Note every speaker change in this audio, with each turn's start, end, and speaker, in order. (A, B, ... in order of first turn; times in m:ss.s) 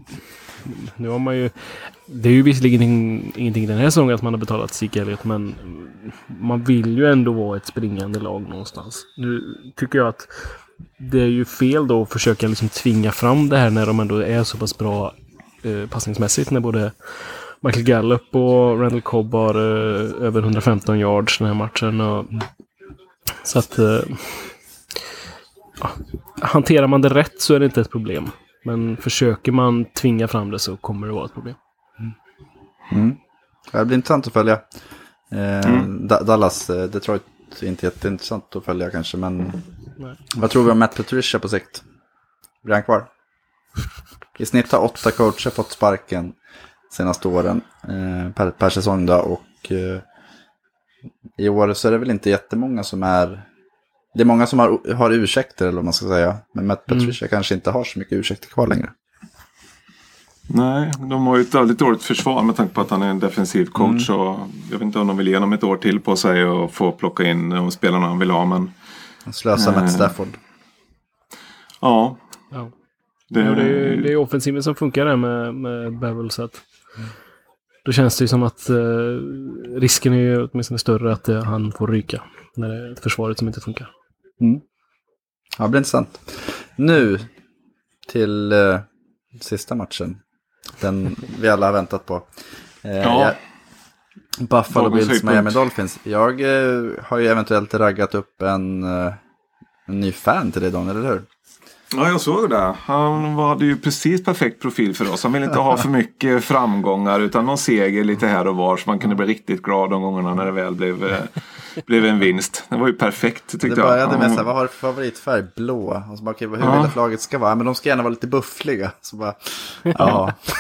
0:00.6-0:10.5 A
0:11.0-0:22.4 A
0:23.4-0:24.5 A
0:25.8-0:31.6 A
0:32.9-0:33.2 B
0:33.7-0:34.7 B
0:35.3-0:39.6 B
0:35.6-0:35.9 C
0:40.3-0:41.8 B
0:42.6-0:43.1 B
0:44.4-0:46.4 B
0:46.9-0:50.0 B
0:51.4-0:53.5 B
0:54.1-0:59.0 B
1:00.5-1:08.7 C
1:03.8-1:04.1 B
1:09.3-1:10.4 B
1:09.6-1:10.1 C
1:11.8-1:12.2 C
1:13.3-1:14.1 C
1:13.4-1:16.6 A
1:17.8-1:23.9 A
1:25.6-1:27.3 B
1:28.1-1:30.2 B
1:30.8-1:32.3 B
1:32.8-1:33.4 B
1:33.0-1:33.4 C
1:34.4-1:39.2 B
1:34.7-1:35.6 C
1:39.9-1:41.3 B
1:41.9-1:54.4 C
1:53.6-2:00.5 B
1:56.6-1:56.9 C